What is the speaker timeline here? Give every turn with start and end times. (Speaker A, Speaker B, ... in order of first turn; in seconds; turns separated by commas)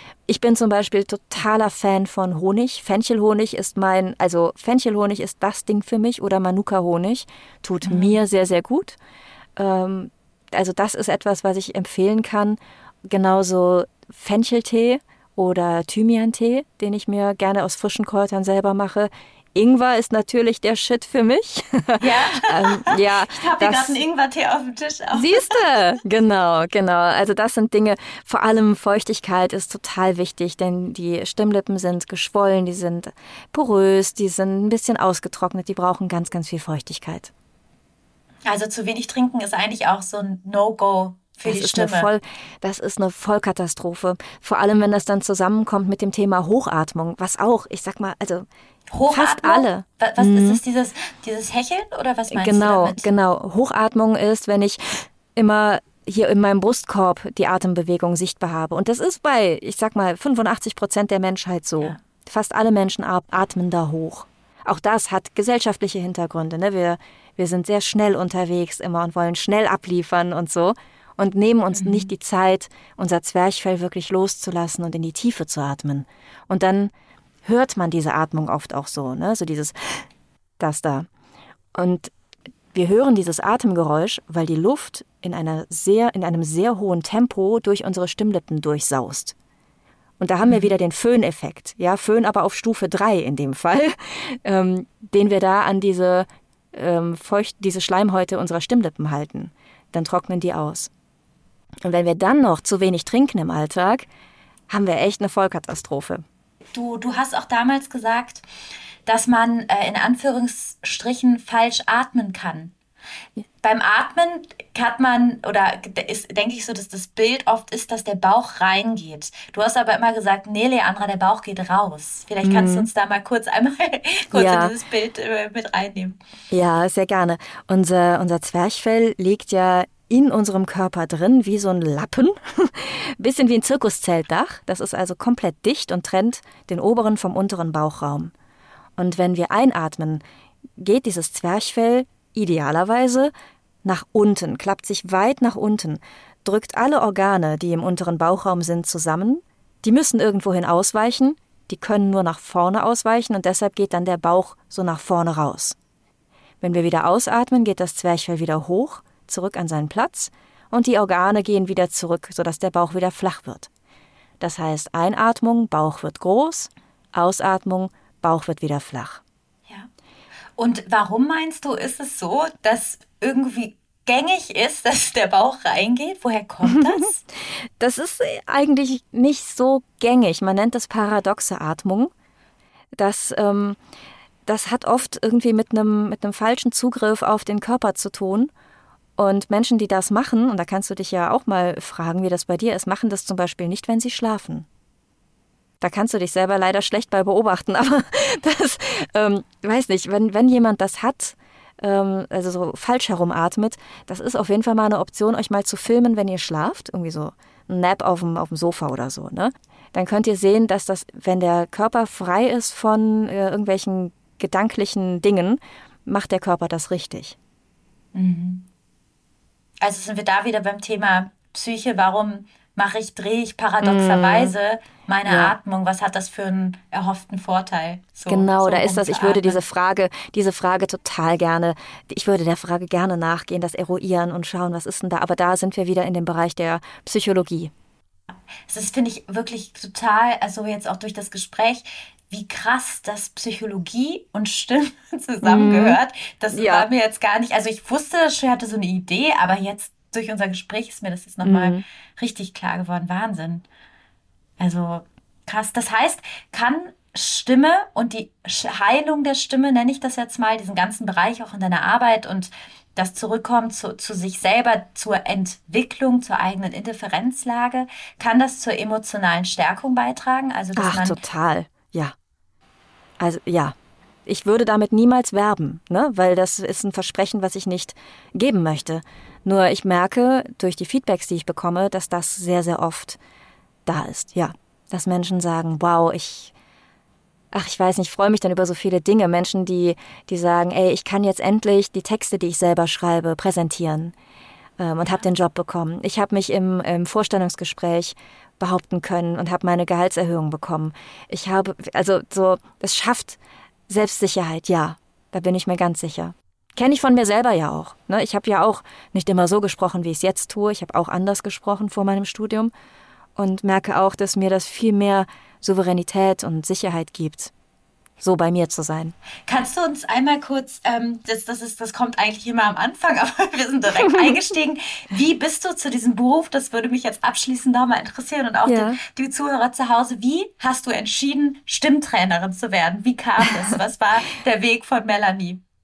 Speaker A: 0.3-9.0, Speaker B: 7.8-8.2, Speaker A: 9.6-24.0, Speaker B: 22.0-25.8, Speaker A: 25.1-37.3, Speaker B: 38.5-42.1, Speaker A: 41.5-48.5, Speaker B: 48.9-53.1, Speaker A: 49.1-50.6, Speaker A: 52.3-76.9, Speaker B: 71.7-72.1, Speaker A: 77.5-80.1, Speaker A: 80.6-81.1, Speaker A: 81.8-82.1, Speaker A: 82.7-89.3, Speaker A: 90.2-100.9, Speaker B: 90.4-90.7, Speaker A: 101.8-104.1, Speaker A: 104.7-106.2, Speaker B: 106.7-108.4, Speaker B: 109.1-112.8, Speaker B: 113.6-126.2, Speaker A: 122.4-122.9, Speaker A: 124.3-124.7, Speaker A: 126.5-138.3, Speaker A: 139.0-140.2, Speaker A: 140.8-143.3, Speaker A: 143.8-155.8, Speaker A: 156.6-163.7, Speaker A: 164.4-169.2, Speaker B: 170.6-177.3, Speaker A: 176.7-177.0, Speaker A: 177.8-182.1, Speaker A: 183.0-183.8, Speaker A: 184.5-188.5, Speaker A: 189.2-194.7, Speaker A: 195.8-217.4, Speaker B: 218.1-218.7, Speaker B: 219.8-229.6, Speaker A: 223.8-224.5, Speaker A: 225.3-225.5, Speaker A: 228.3-237.7, Speaker B: 238.7-253.7, Speaker A: 245.4-246.0, Speaker A: 246.5-246.9, Speaker A: 251.4-251.8, Speaker B: 254.6-271.2, Speaker A: 270.8-272.1, Speaker A: 273.2-273.8, Speaker A: 274.3-283.2, Speaker A: 283.9-286.5, Speaker A: 287.5-294.1, Speaker A: 294.8-312.7, Speaker A: 313.4-317.5, Speaker A: 318.2-319.1, Speaker B: 319.5-335.6, Speaker A: 324.0-324.4, Speaker A: 328.7-329.0